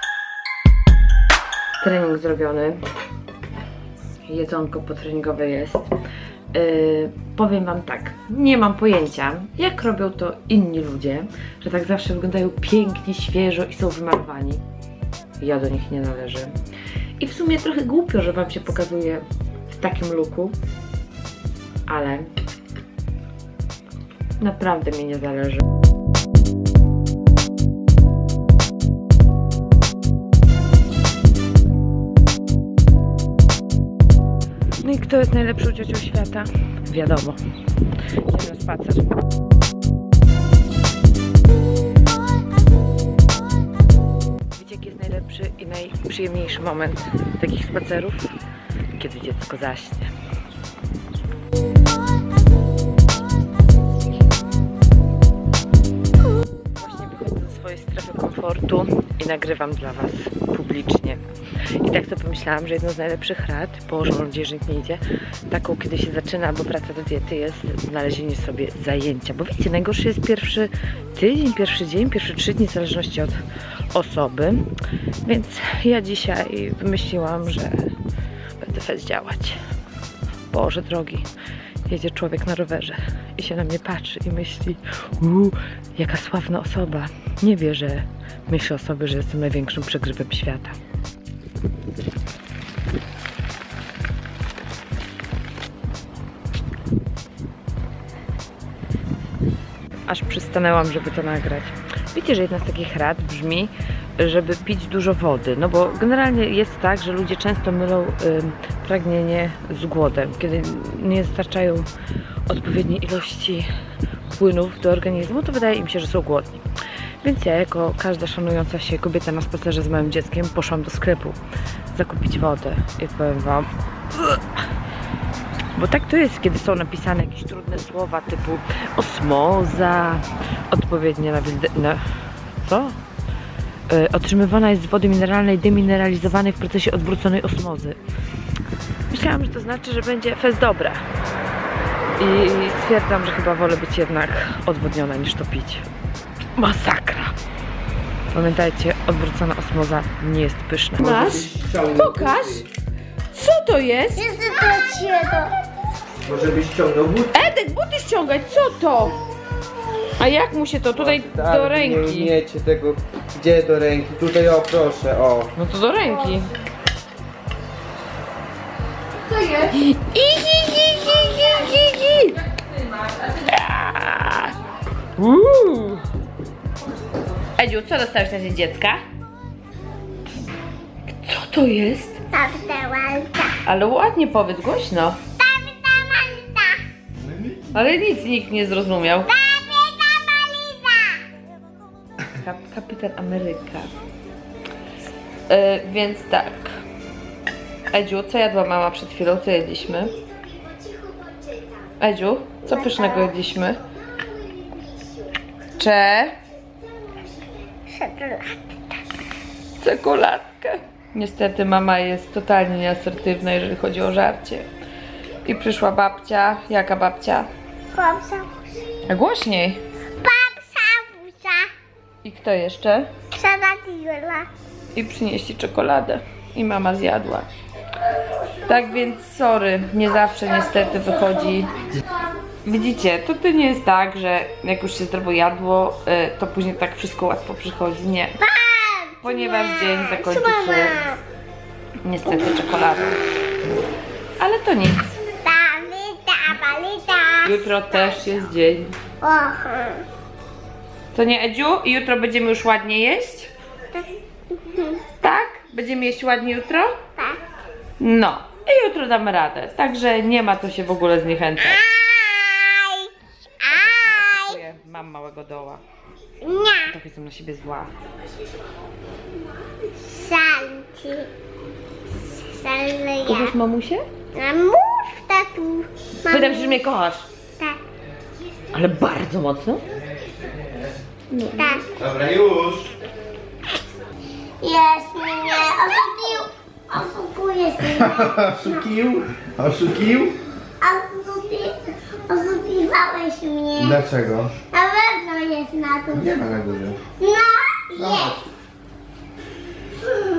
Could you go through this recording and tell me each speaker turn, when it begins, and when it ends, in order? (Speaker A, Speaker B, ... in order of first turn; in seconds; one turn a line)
Speaker A: 1.8-2.8
Speaker A: 4.2-5.9
Speaker A: 6.5-14.6
Speaker A: 15.4-16.6
Speaker A: 17.2-20.6
Speaker A: 21.9-22.3
Speaker A: 24.4-25.6
Speaker A: 34.8-37.4
Speaker A: 38.2-39.2
Speaker A: 44.5-48.3
Speaker A: 48.9-50.1
Speaker A: 56.7-61.2
Speaker A: 61.8-73.4
Speaker A: 73.9-78.0
Speaker A: 78.6-79.6
Speaker A: 80.5-81.3
Speaker A: 81.9-90.8
Speaker A: 100.1-111.9
Speaker A: 112.5-113.7
Speaker A: 114.3-116.6
Speaker A: 117.2-121.4
Speaker A: 121.9-124.6
Speaker A: 125.7-132.0
Speaker A: 132.6-133.0
Speaker A: 133.9-138.0
Speaker A: 139.1-141.0
Speaker A: 142.2-145.8
Speaker A: 146.6-147.3
Speaker A: 148.3-152.7
Speaker B: 151.0-152.7
Speaker A: 153.3-154.3
Speaker C: 154.1-155.5
Speaker B: 156.2-157.4
Speaker A: 157.3-159.2
Speaker A: 160.2-162.3
Speaker B: 160.9-165.5
Speaker A: 165.6-166.5
Speaker A: 169.4-172.4
Speaker A: 173.0-174.5
Speaker A: 175.2-176.0
Speaker A: 177.6-179.0
Speaker A: 181.1-182.2
Speaker C: 182.3-183.6
Speaker A: 183.6-185.2
Speaker C: 185.4-186.8
Speaker A: 187.7-189.3
Speaker C: 189.3-191.3
Speaker A: 192.3-193.9
Speaker A: 195.5-196.8
Speaker A: 197.9-200.1
Speaker C: 200.5-201.7
Speaker A: 202.0-203.8
Speaker C: 202.7-203.5
Speaker C: 204.1-205.3
Speaker A: 205.7-206.4
Speaker C: 207.1-208.6
Speaker A: 209.8-214.7
Speaker A: 215.4-217.5
Speaker C: 217.9-218.7
Speaker A: 219.0-219.8
Speaker C: 220.2-221.7
Speaker A: 222.2-223.1
Speaker C: 223.3-224.5
Speaker A: 224.9-227.5
Speaker A: 228.6-231.8
Speaker C: 230.8-231.6
Speaker A: 232.6-238.5
Speaker C: 238.4-241.2
Speaker A: 239.2-241.1
Speaker A: 242.0-243.2
Speaker A: 244.4-245.2
Speaker C: 245.4-248.1
Speaker A: 247.4-248.9
Speaker C: 249.2-250.1
Speaker A: 251.1-253.5
Speaker C: 253.9-255.0
Speaker A: 255.2-257.1
Speaker A: 258.0-261.9
Speaker C: 261.8-263.1
Speaker A: 263.6-265.8
Speaker C: 266.4-266.9
Speaker A: 266.7-267.9
Speaker C: 269.9-271.3
Speaker C: 272.5-273.5
Speaker A: 273.2-274.1
Speaker C: 274.3-276.8
Speaker A: 276.2-277.3
Speaker A: 278.7-279.8
Speaker A: 281.3-281.8
Speaker C: 281.5-281.9
Speaker B: 281.9-282.9
Speaker C: 284.6-288.8
Speaker B: 288.0-290.4
Speaker C: 290.8-294.0
Speaker B: 293.8-294.5
Speaker C: 294.7-296.3
Speaker B: 296.1-297.0
Speaker C: 297.1-298.4
Speaker B: 298.0-298.4